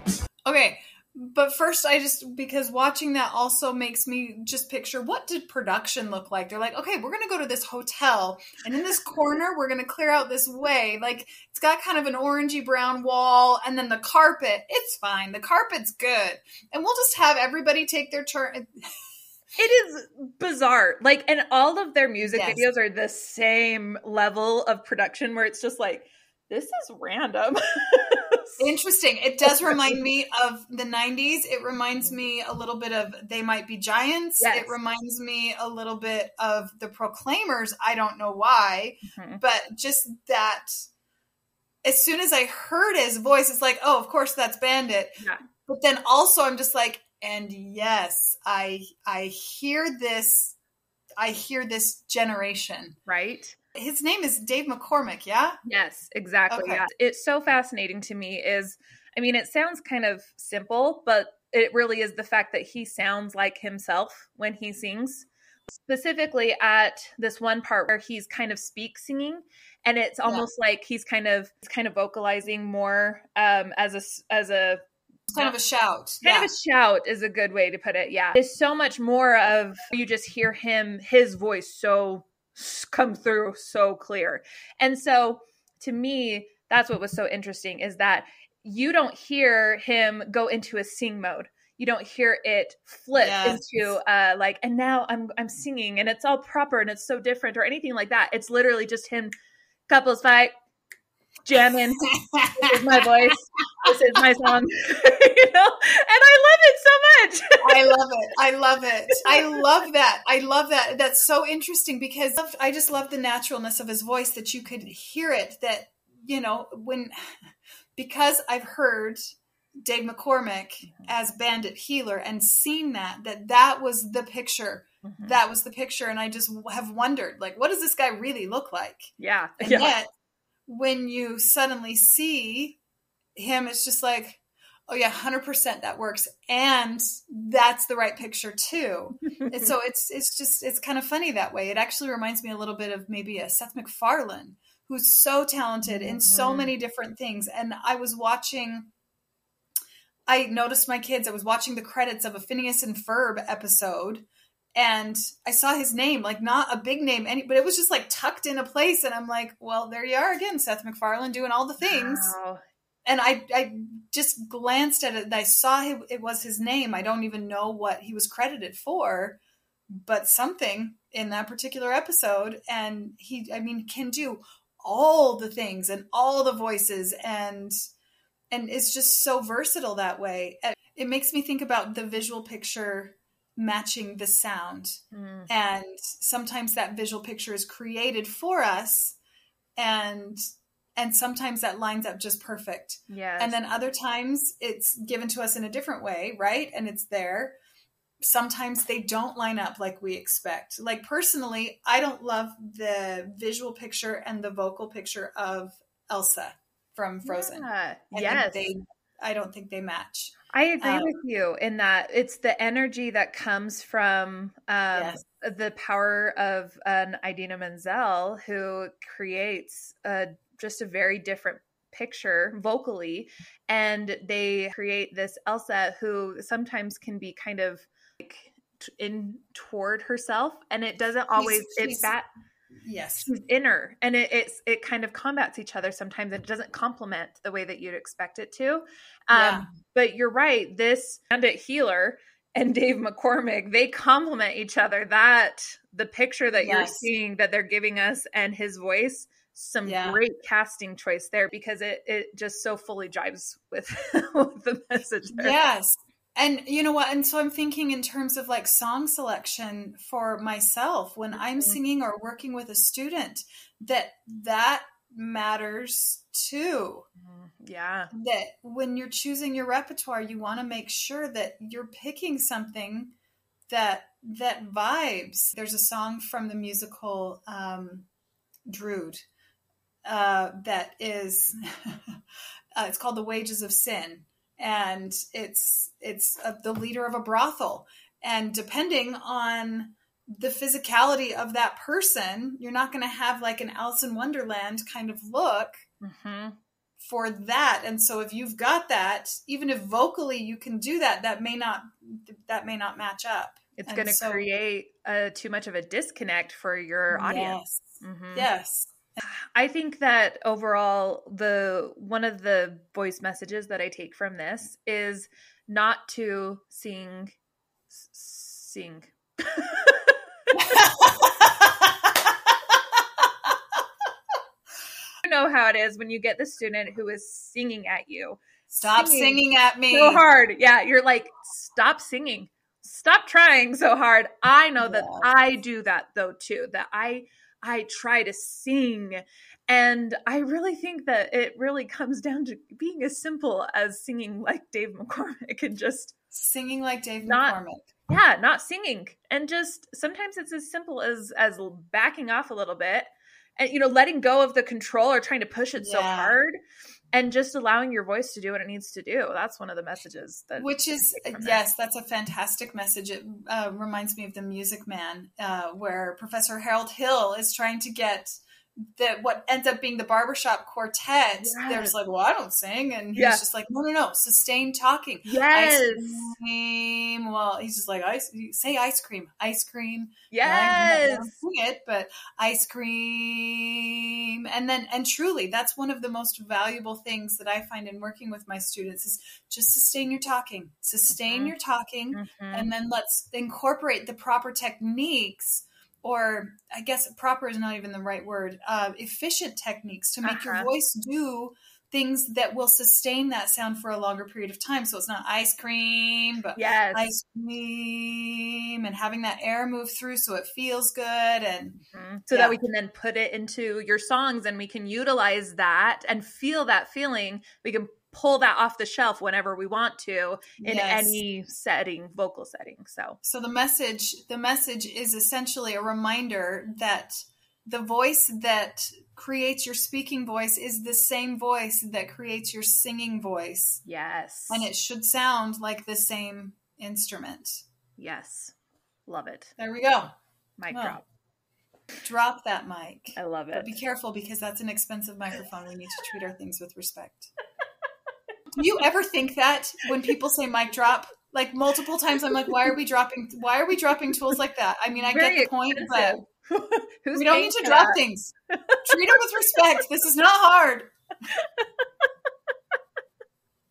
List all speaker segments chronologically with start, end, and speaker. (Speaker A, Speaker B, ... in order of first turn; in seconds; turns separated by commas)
Speaker A: 0.5-18.7, Speaker B: 19.6-28.6, Speaker A: 22.2-22.6, Speaker A: 28.6-40.8, Speaker B: 29.6-29.9, Speaker B: 34.4-34.7, Speaker B: 39.0-39.4, Speaker A: 41.8-50.5, Speaker A: 51.2-53.0, Speaker B: 53.1-53.5, Speaker A: 53.7-55.6, Speaker B: 55.6-74.8, Speaker A: 56.5-56.8, Speaker A: 75.3-76.5, Speaker B: 76.2-99.3, Speaker A: 93.1-94.0, Speaker B: 99.9-100.5, Speaker B: 101.4-107.9, Speaker A: 102.0-102.5, Speaker A: 107.6-117.3, Speaker A: 118.0-130.1, Speaker B: 125.0-125.4, Speaker B: 129.2-129.9, Speaker A: 130.7-132.8, Speaker A: 133.3-148.9, Speaker B: 139.4-139.7, Speaker B: 145.8-146.7, Speaker A: 150.3-162.3, Speaker B: 161.8-162.6, Speaker A: 163.0-169.4, Speaker A: 169.9-177.8, Speaker A: 178.5-189.2, Speaker B: 185.1-185.5, Speaker A: 189.8-190.4, Speaker A: 191.0-197.5, Speaker B: 193.1-193.6, Speaker A: 198.2-211.1, Speaker B: 207.2-208.7, Speaker B: 210.5-232.2, Speaker A: 214.9-215.2, Speaker A: 231.3-232.1, Speaker A: 232.8-233.3, Speaker B: 233.2-255.7, Speaker A: 239.3-239.7, Speaker A: 246.6-247.1, Speaker A: 249.8-250.2, Speaker A: 255.3-267.1, Speaker B: 261.3-261.8, Speaker B: 267.2-268.1, Speaker A: 268.1-273.1, Speaker A: 273.7-278.1, Speaker A: 278.7-279.2, Speaker A: 280.0-282.2, Speaker A: 282.8-295.8, Speaker B: 296.0-296.6, Speaker A: 297.0-304.4, Speaker B: 303.8-308.5, Speaker A: 307.1-309.2, Speaker B: 309.2-317.3, Speaker B: 317.9-320.1, Speaker A: 320.6-321.9, Speaker B: 325.2-329.4, Speaker A: 328.7-330.2, Speaker B: 329.9-346.1, Speaker A: 334.8-335.3, Speaker A: 346.3-347.9, Speaker B: 347.2-347.6, Speaker B: 348.1-356.5, Speaker A: 355.8-356.4, Speaker B: 357.1-361.6, Speaker A: 360.6-411.8, Speaker B: 371.4-371.9, Speaker B: 373.1-373.4, Speaker B: 375.2-376.3, Speaker B: 380.3-381.3, Speaker B: 391.1-391.5, Speaker B: 392.1-392.7, Speaker B: 400.2-400.7, Speaker B: 406.6-407.1, Speaker B: 411.9-423.2, Speaker A: 412.3-412.6, Speaker A: 420.6-421.2, Speaker A: 423.2-433.8, Speaker B: 433.8-434.6, Speaker A: 434.5-437.6, Speaker B: 438.0-438.5, Speaker B: 439.1-439.5, Speaker A: 439.6-440.1, Speaker B: 440.6-441.0, Speaker A: 440.7-441.0, Speaker A: 442.0-447.3, Speaker B: 443.2-443.7, Speaker A: 448.5-456.2, Speaker B: 455.0-458.0, Speaker A: 457.1-460.9, Speaker B: 461.3-462.1